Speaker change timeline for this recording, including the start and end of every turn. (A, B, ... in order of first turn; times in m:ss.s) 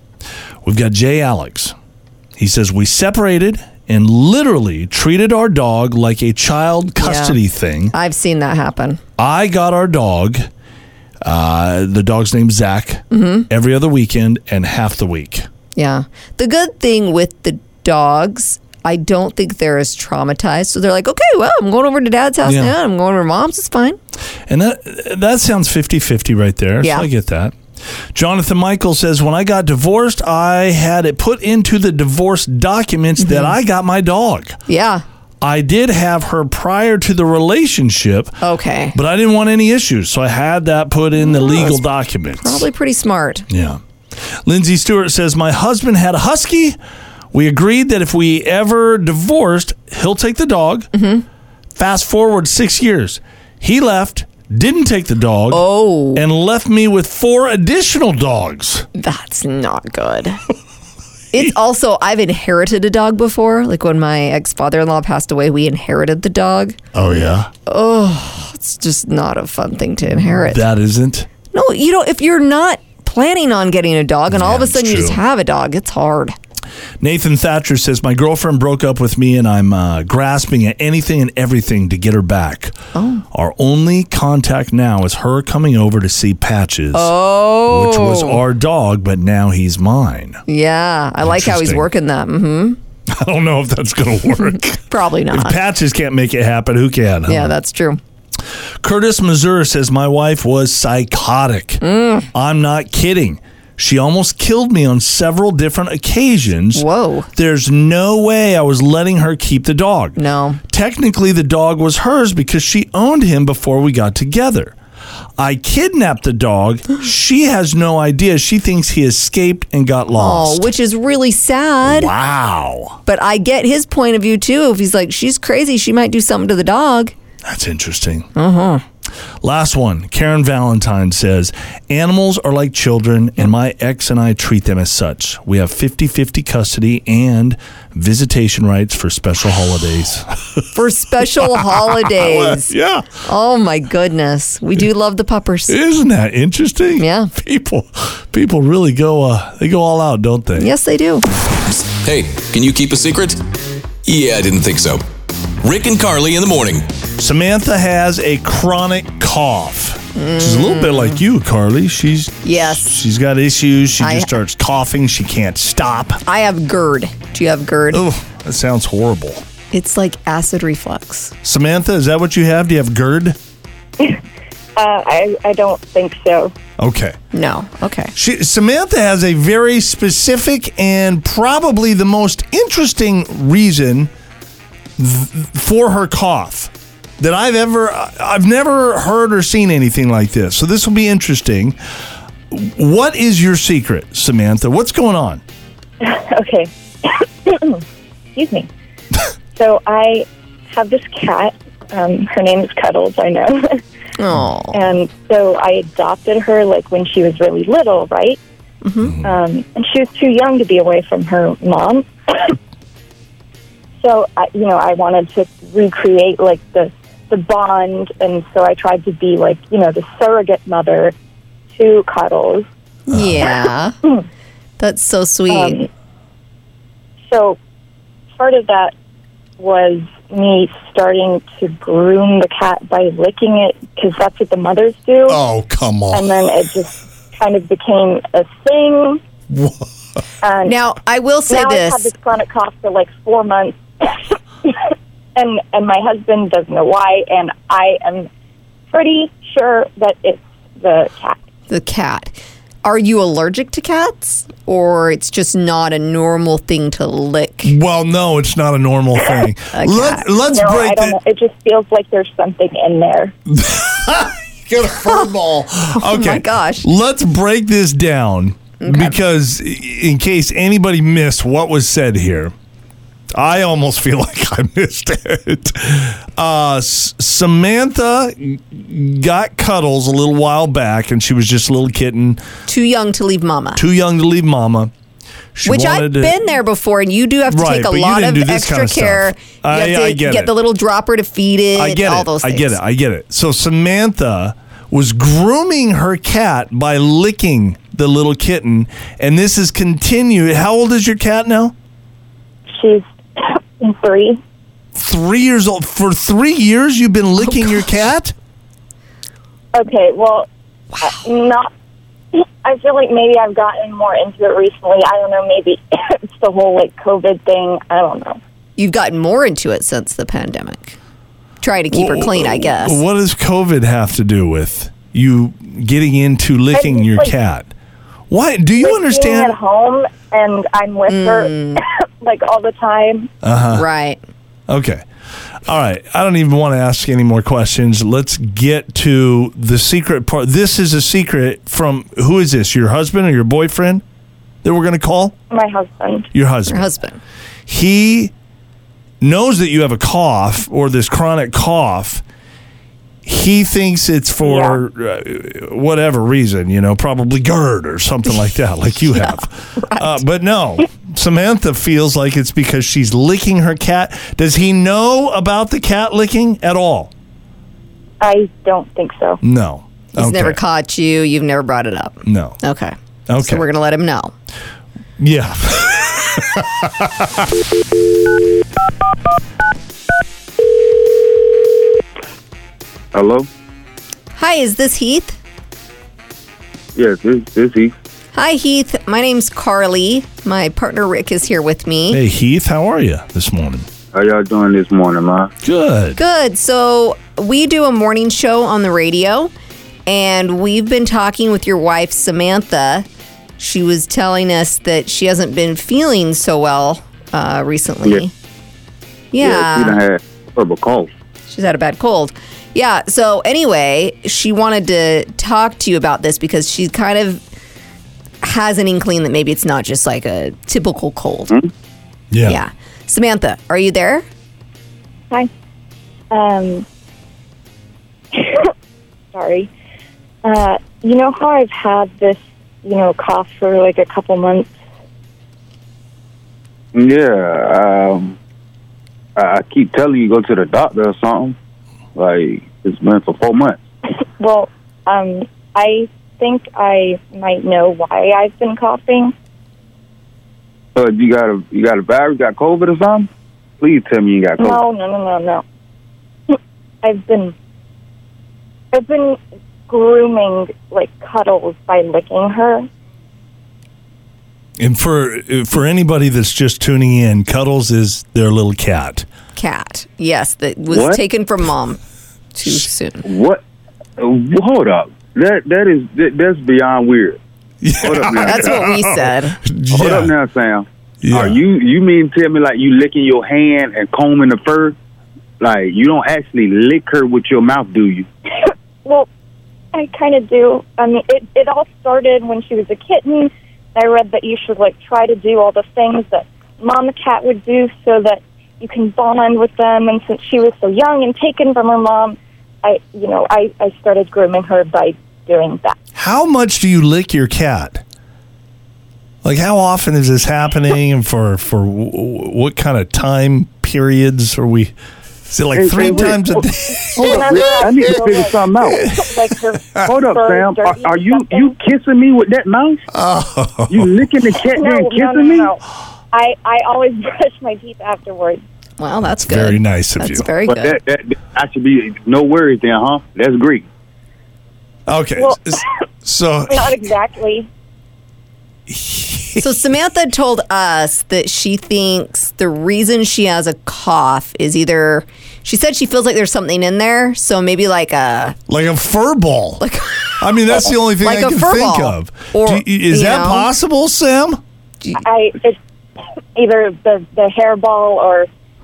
0:00.6-0:01.7 A
0:02.4-0:07.9 A
0:07.0-0:07.4 B
0:07.9-0:09.0 B
0:09.2-0:10.5 A
0:11.2-0:15.4 A
0:13.1-0:13.5 B
0:15.8-0:24.0 B
0:22.4-0:22.7 A
0:24.5-0:27.6 A
0:26.8-0:27.1 B
0:28.1-0:34.6 A
0:33.2-0:33.5 B
0:34.7-0:35.0 B
0:35.4-0:38.4 A
0:38.4-0:39.0 B
0:38.9-0:42.7 A
0:41.2-0:41.8 B
0:42.4-0:43.5 B
0:43.5-0:46.8 A
0:47.3-0:50.9 A
0:50.9-0:51.2 B
0:51.7-0:58.8 A
0:55.5-0:56.2 B
0:58.9-1:00.4 B
1:01.3-1:06.8 B
1:06.9-1:07.5 A
1:07.6-1:10.6 B
1:10.4-1:11.3 A
1:11.5-1:16.4 B
1:14.3-1:15.2 A
1:17.0-1:22.8 A
1:22.9-1:23.2 B
1:23.3-1:30.4 A
1:26.9-1:28.4 B
1:30.5-1:32.8 B
1:31.2-1:31.9 A
1:33.1-1:37.5 A
1:34.4-1:35.6 B
1:37.3-1:38.0 B
1:38.8-1:50.2 A
1:41.8-1:42.3 B
1:46.7-1:47.3 B
1:50.2-1:50.6 B
1:50.7-1:54.7 A
1:55.4-2:00.7 A
2:00.2-2:02.1 B
2:01.8-2:03.0 A
2:03.0-2:07.1 B
2:07.4-2:08.3 A
2:08.3-2:08.8 B
2:09.4-2:20.7 A
2:20.7-2:25.8 B
2:21.4-2:23.1 A
2:25.7-2:30.7 A
2:27.0-2:27.3 B
2:30.6-2:31.3 B
2:31.9-2:33.4 C
2:34.0-2:35.0 C
2:35.6-2:36.8 C
2:37.2-2:46.2 A
2:40.2-2:41.2 B
2:42.4-2:42.9 B
2:44.0-2:44.3 B
2:46.2-2:48.0 B
2:47.9-2:49.4 A
2:49.7-2:51.3 B
2:51.4-2:53.4 A
2:54.8-2:56.5 D
2:56.8-2:57.2 A
2:57.3-2:58.1 B
2:58.1-3:04.1 A
3:05.0-3:11.8 A
3:12.5-3:15.4 A
3:16.0-3:17.8 D
3:18.4-3:18.7 D
3:19.6-3:23.8 D
3:24.2-3:24.8 B
3:24.7-3:28.4 D
3:28.8-3:29.2 B
3:29.0-3:29.4 A
3:29.2-3:32.5 D
3:34.0-3:41.1 D
3:41.7-3:42.7 D
3:43.1-3:44.0 B
3:44.8-3:45.8 B
3:45.5-3:45.9 D
3:47.3-3:47.6 D
3:48.4-3:48.9 D
3:49.6-3:55.4 D
3:55.3-3:56.3 A
3:56.1-3:59.2 D
3:59.5-3:59.9 A
4:00.4-4:00.7 D
4:00.6-4:02.1 B
4:01.5-4:08.3 D
4:08.9-4:11.4 D
4:11.7-4:17.7 B
4:17.6-4:21.2 A
4:19.7-4:20.3 B
4:20.5-4:23.3 D
4:23.5-4:32.5 A
4:25.9-4:26.9 B
4:28.8-4:29.2 B
4:33.3-4:42.4 A
4:42.7-4:43.8 B
4:43.7-4:44.9 A
4:45.5-4:46.5 A
4:45.6-4:52.8 B
4:47.5-4:50.5 A
4:51.7-5:01.7 A
5:02.7-5:04.4 D
5:04.9-5:08.3 A
5:07.4-5:07.8 B
5:09.7-5:10.5 D
5:11.0-5:11.7 D
5:12.3-5:18.4 D
5:18.8-5:21.0 B
5:21.6-5:23.0 B
5:21.9-5:27.7 A
5:26.7-5:27.3 D
5:28.3-5:29.6 A
5:28.8-5:33.3 D
5:31.1-5:31.8 B
5:33.4-5:33.8 A
5:33.7-5:34.2 B
5:34.7-5:35.0 A
5:35.6-5:44.0 A
5:44.6-5:45.3 A
5:45.5-5:46.3 D
5:46.3-5:46.9 A
5:46.7-5:47.2 B
5:47.7-5:48.3 A
5:49.2-5:52.2 A
5:53.2-6:07.1 A
5:54.4-5:54.8 D
6:08.2-6:09.4 D
6:09.4-6:10.6 A
6:10.1-6:14.3 B
6:12.2-6:12.6 A
6:13.3-6:13.6 A
6:15.2-6:17.5 A
6:23.1-6:23.5 E
6:24.4-6:25.4 B
6:26.9-6:28.0 E
6:28.3-6:32.2 B
6:32.1-6:33.9 A
6:34.1-6:35.5 E
6:35.6-6:36.2 A
6:36.2-6:39.5 B
6:40.1-6:43.0 B
6:43.6-6:48.3 B
6:49.3-6:50.0 B
6:49.4-6:51.1 E
6:51.5-6:57.4 B
6:58.4-7:01.6 B
7:02.3-7:02.6 A
7:02.5-7:04.3 B
7:06.3-7:06.8 D
7:08.3-7:08.7 D
7:09.3-7:09.7 D
7:10.4-7:14.7 D
7:16.9-7:18.4 E
7:19.4-7:21.6 E
7:22.1-7:23.8 E
7:24.4-7:29.3 D
7:30.9-7:33.3 E
7:33.8-7:34.8 E
7:34.6-7:35.6 D
7:36.5-7:37.5 D
7:38.9-7:42.8 D
7:44.8-7:49.3 A
7:49.6-7:52.0 B
7:50.9-7:51.2 E
7:52.5-7:53.3 B
7:53.2-7:53.6 E
7:54.2-7:57.4 E
7:57.8-8:00.3 A
7:58.0-7:58.8 E
7:58.4-7:59.6 B
7:59.9-8:05.0 E
8:01.2-8:01.6 A
8:05.6-8:08.3 E
8:08.6-8:09.3 D
8:09.9-8:26.0 D
8:26.2-8:28.0 A
8:29.4-8:34.9 A
8:35.5-8:38.3 A
8:35.7-8:36.6 E
8:37.2-8:39.1 E
8:37.2-8:41.7 D
8:38.9-8:40.1 A
8:40.0-8:43.0 E
8:43.1-8:44.2 A
8:43.9-8:45.7 E
8:44.7-8:45.8 D
8:46.3-8:48.6 D
8:49.0-8:51.0 B
8:49.2-8:50.5 A
8:50.7-8:53.8 E
8:55.1-8:57.0 A
8:55.4-8:55.9 D
8:56.7-8:57.7 D
8:58.9-8:59.7 A
8:59.6-9:08.6 B
9:08.7-9:09.8 A
9:09.8-9:13.7 B
9:10.4-9:14.6 A
9:15.2-9:15.8 D
9:16.6-9:18.5 D